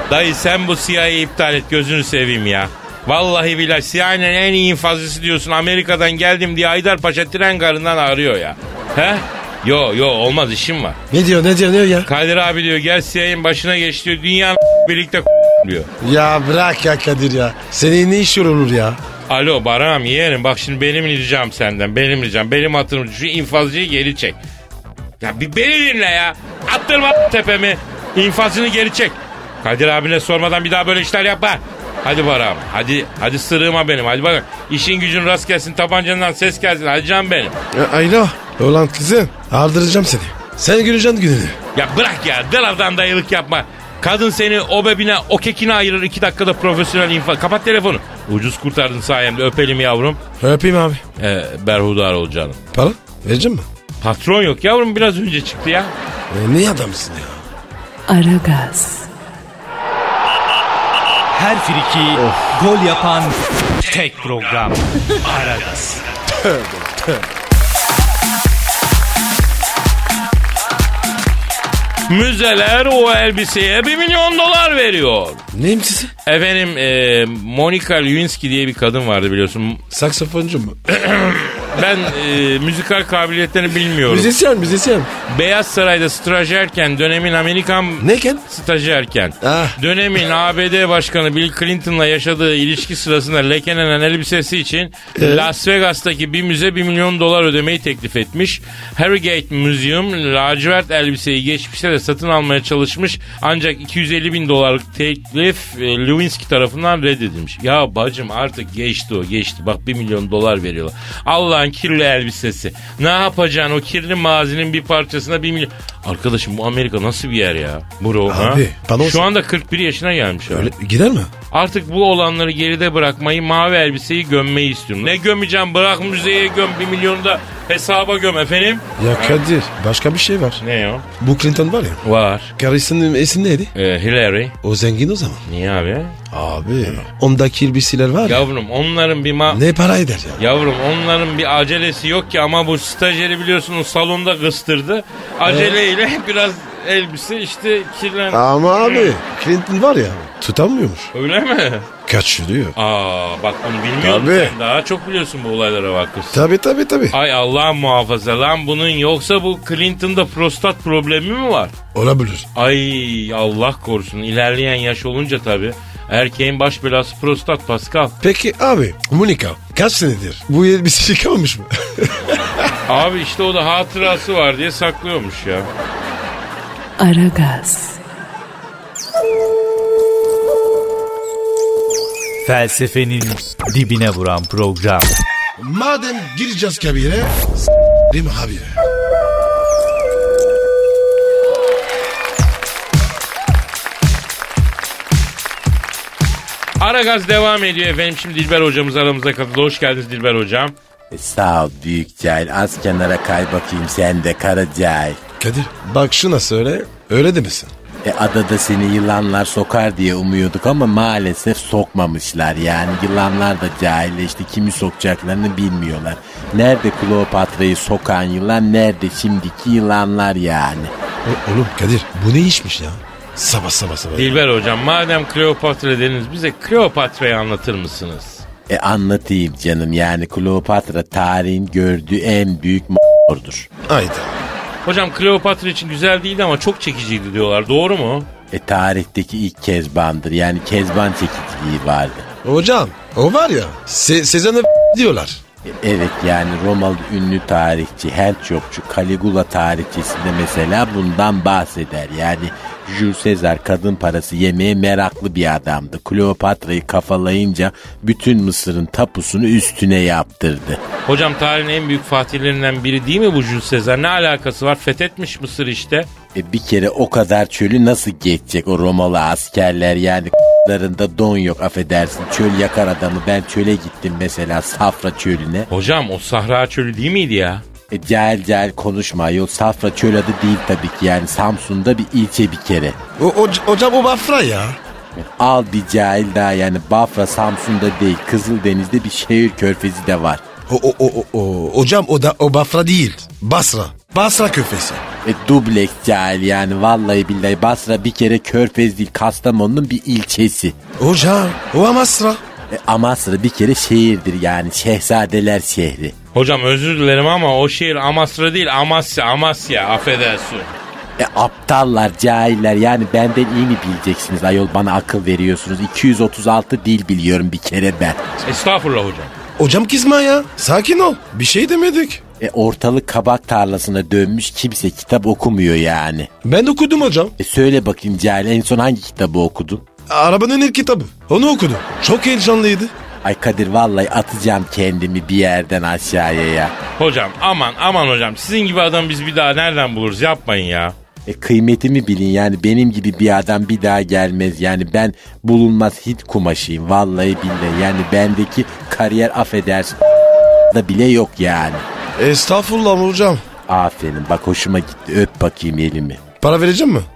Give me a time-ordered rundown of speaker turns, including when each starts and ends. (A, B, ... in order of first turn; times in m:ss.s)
0:00.1-0:11.0 A
0:11.1-0:12.1 B
0:12.1-0:15.9 A
0:16.0-0:19.0 B
0:19.3-0:24.4 A
0:25.2-0:37.6 A
0:37.7-0:41.6 B
0:41.8-0:50.2 A
0:50.4-0:51.0 B
0:51.2-0:52.6 A
0:52.7-0:53.7 B
0:54.0-0:55.9 A
0:56.3-0:57.4 B
0:58.1-0:59.1 C
1:01.3-1:06.0 D
1:02.2-1:02.5 B
1:06.3-1:07.2 B
1:12.1-1:15.4 A
1:15.5-1:16.1 B
1:16.3-1:19.8 A
1:19.9-1:20.8 B
1:20.9-1:24.3 A
1:24.0-1:25.1 B
1:25.3-2:00.7 A
1:28.0-1:28.4 B
1:29.4-1:29.8 B
1:35.2-1:35.5 B
1:58.3-1:59.3 B
2:00.5-2:01.3 B
2:01.5-2:09.4 A
2:09.0-2:10.6 B
2:10.6-2:11.1 A
2:11.2-2:12.0 B
2:12.0-2:12.5 A
2:12.6-2:13.7 B
2:13.8-2:14.6 A
2:14.6-2:15.4 B
2:15.5-2:16.2 A
2:16.3-2:18.4 B
2:18.2-2:19.7 A
2:19.5-2:20.4 B
2:20.4-2:29.1 A
2:25.4-2:25.8 B
2:28.3-2:31.1 B
2:31.1-2:31.9 A
2:32.1-2:32.8 B
2:32.8-2:36.5 A
2:34.0-2:34.6 B
2:36.3-2:37.2 B
2:37.1-2:41.7 A
2:41.9-2:42.5 B
2:42.6-2:48.2 A
2:48.2-2:52.8 B
2:52.9-2:55.7 A
2:57.0-2:58.0 C
3:02.4-3:05.1 D
3:05.6-3:07.5 B
3:08.1-3:08.8 B
3:16.8-3:20.8 A
3:21.1-3:25.2 E
3:25.4-3:27.7 B
3:28.0-3:40.9 E
3:41.2-3:44.4 B
3:44.2-3:48.4 A
3:48.7-3:53.7 E
3:53.9-3:54.5 B
3:54.8-3:58.3 A
3:58.5-4:02.3 E
4:02.4-4:05.4 B
4:05.6-4:20.8 E
4:21.1-4:26.1 A
4:26.3-4:35.7 E
4:35.7-4:37.6 A
4:37.9-4:43.0 E
4:43.2-4:44.8 B
4:45.2-4:50.4 E
4:50.7-4:55.0 B
4:55.2-5:00.8 E
5:01.0-5:02.4 B
5:02.7-5:06.2 E
5:06.3-5:10.7 A
5:11.2-5:18.4 E
5:18.4-5:19.3 A
5:19.6-5:22.2 B
5:22.4-5:26.3 E
5:26.4-5:27.4 B
5:27.4-5:29.8 E
5:30.1-5:32.9 B
5:33.2-5:36.8 E
5:37.0-5:41.0 A
5:41.3-5:50.0 E
5:50.7-5:51.9 E
5:52.2-5:53.4 B
5:53.7-5:56.2 E
5:56.4-5:57.1 B